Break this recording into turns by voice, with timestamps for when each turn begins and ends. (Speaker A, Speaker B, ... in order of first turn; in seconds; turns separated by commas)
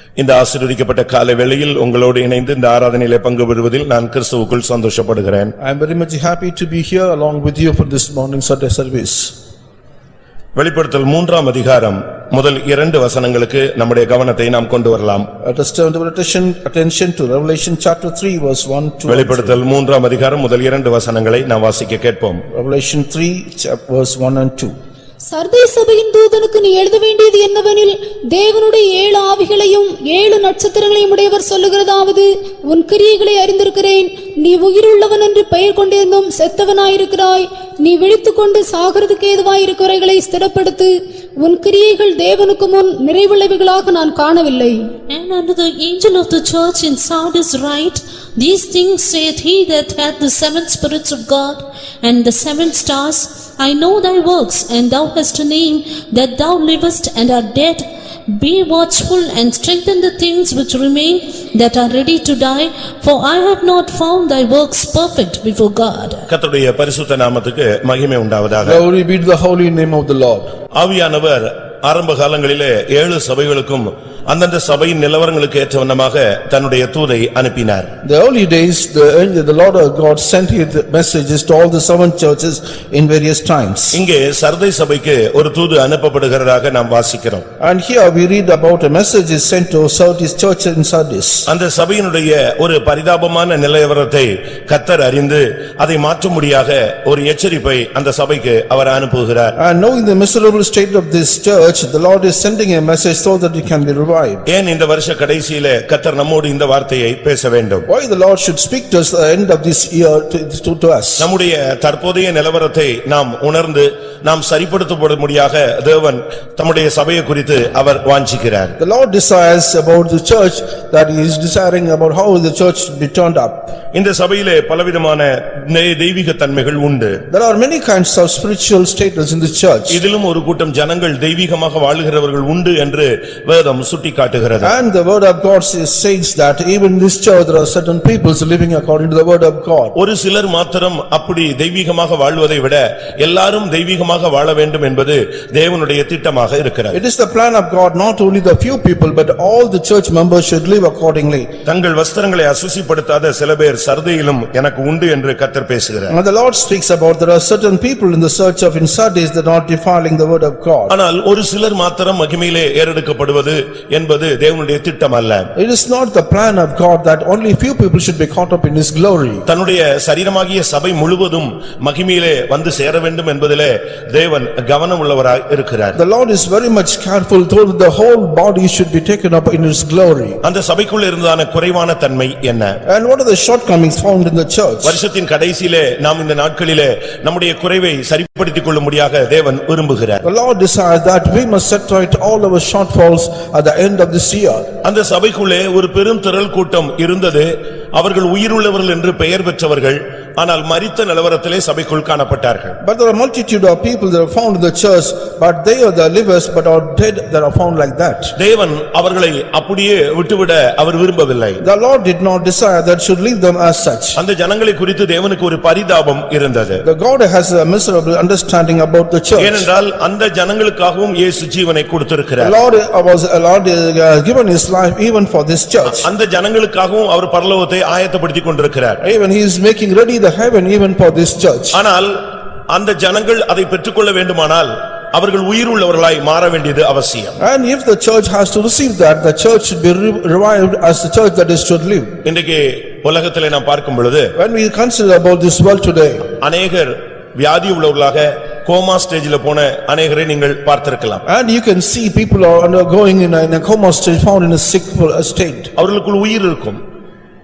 Speaker A: 0.2-5.5, Speaker B: 5.6-9.3, Speaker A: 10.6-15.3, Speaker B: 15.4-19.6, Speaker A: 19.1-22.4, Speaker B: 22.5-24.7, Speaker C: 25.3-44.9, Speaker D: 45.1-66.3, Speaker A: 66.3-68.8, Speaker B: 68.6-70.5, Speaker A: 70.8-77.9, Speaker B: 78.0-84.0, Speaker A: 83.9-87.5, Speaker B: 87.6-91.5, Speaker A: 91.5-99.5, Speaker B: 99.6-104.5, Speaker A: 104.5-107.9, Speaker B: 107.9-111.3, Speaker A: 111.2-118.8, Speaker B: 118.8-123.7, Speaker A: 123.9-127.2, Speaker B: 127.3-130.0, Speaker A: 129.9-134.7, Speaker B: 134.6-139.9, Speaker A: 139.9-147.0, Speaker B: 146.9-151.5, Speaker A: 151.7-156.2, Speaker B: 156.1-161.0, Speaker A: 160.9-165.5, Speaker B: 165.6-169.5, Speaker A: 169.5-176.0, Speaker B: 175.9-180.4, Speaker A: 180.4-182.8, Speaker B: 182.9-185.0, Speaker A: 184.8-190.2, Speaker B: 190.2-194.7, Speaker A: 194.8-202.8, Speaker B: 202.8-208.3, Speaker A: 208.4-211.6, Speaker B: 211.6-214.2, Speaker A: 214.2-216.8, Speaker B: 216.8-219.7, Speaker A: 219.4-222.6, Speaker B: 222.4-226.1, Speaker A: 225.9-229.0, Speaker B: 229.0-231.8, Speaker A: 231.7-232.1, Speaker A: 232.7-237.4, Speaker B: 237.4-242.1, Speaker A: 242.2-244.3, Speaker B: 244.4-246.3, Speaker A: 246.4-251.2, Speaker B: 251.3-255.7, Speaker A: 255.8-256.8